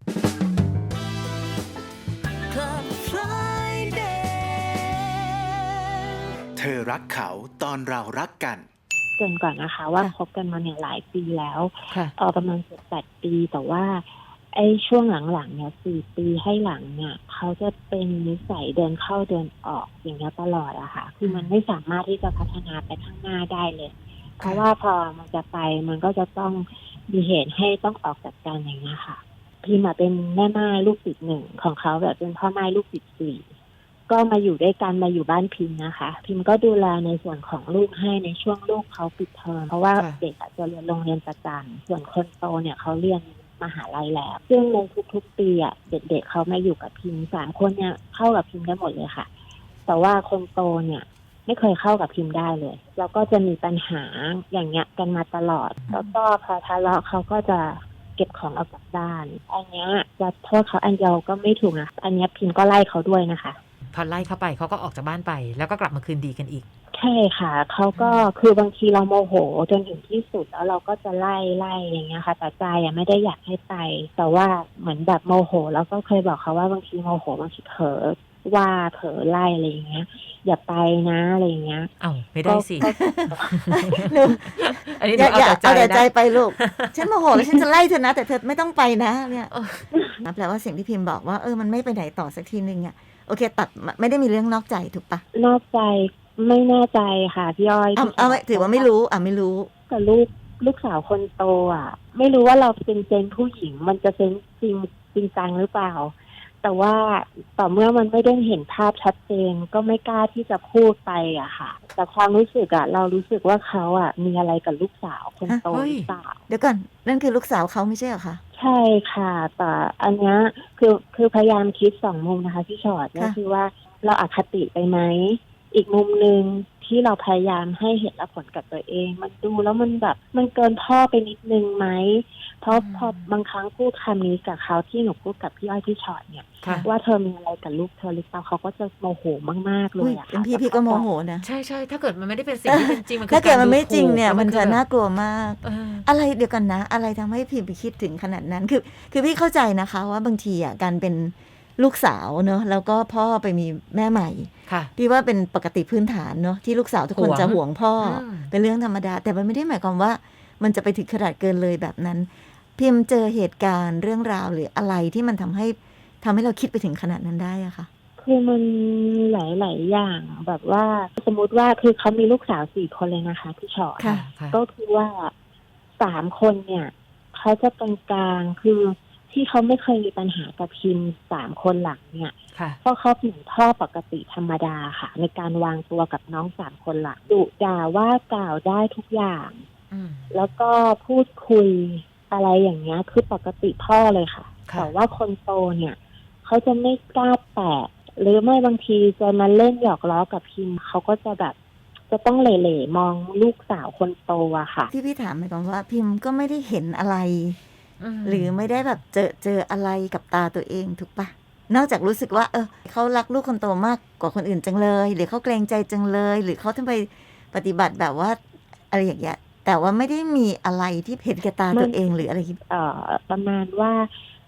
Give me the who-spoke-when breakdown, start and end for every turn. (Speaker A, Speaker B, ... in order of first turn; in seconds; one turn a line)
Speaker A: 2.5-4.2
Speaker B: 6.5-8.7
Speaker C: 9.2-33.5
Speaker A: 21.2-21.5
Speaker C: 34.1-49.3
Speaker A: 39.9-40.2
Speaker C: 49.9-63.6
Speaker A: 63.9-66.7
Speaker C: 66.9-81.9
Speaker A: 67.9-68.3
Speaker A: 82.0-82.9
Speaker C: 82.4-84.0
Speaker D: 82.8-83.3
Speaker A: 83.4-87.6
Speaker D: 83.9-89.5
Speaker A: 89.5-89.9
Speaker D: 90.2-95.2
Speaker C: 95.3-98.9
Speaker D: 98.0-99.7
Speaker C: 99.9-116.4
Speaker A: 115.7-116.1
Speaker D: 116.5-118.4
Speaker C: 118.5-141.1
Speaker A: 132.7-133.3
Speaker A: 136.6-136.9
Speaker D: 140.0-141.4
Speaker A: 141.4-144.8
Speaker D: 142.7-167.9
Speaker A: 145.6-146.1
Speaker A: 157.1-158.5
Speaker C: 168.2-175.3
Speaker A: 174.0-174.6
Speaker C: 176.0-189.6
Speaker A: 182.5-182.8
Speaker A: 189.9-190.3
Speaker C: 190.3-201.6
Speaker A: 194.7-194.9
Speaker C: 202.1-204.9
Speaker D: 204.9-207.6
Speaker A: 208.0-208.8
Speaker D: 208.2-218.4
Speaker D: 218.9-222.6
Speaker C: 221.7-224.1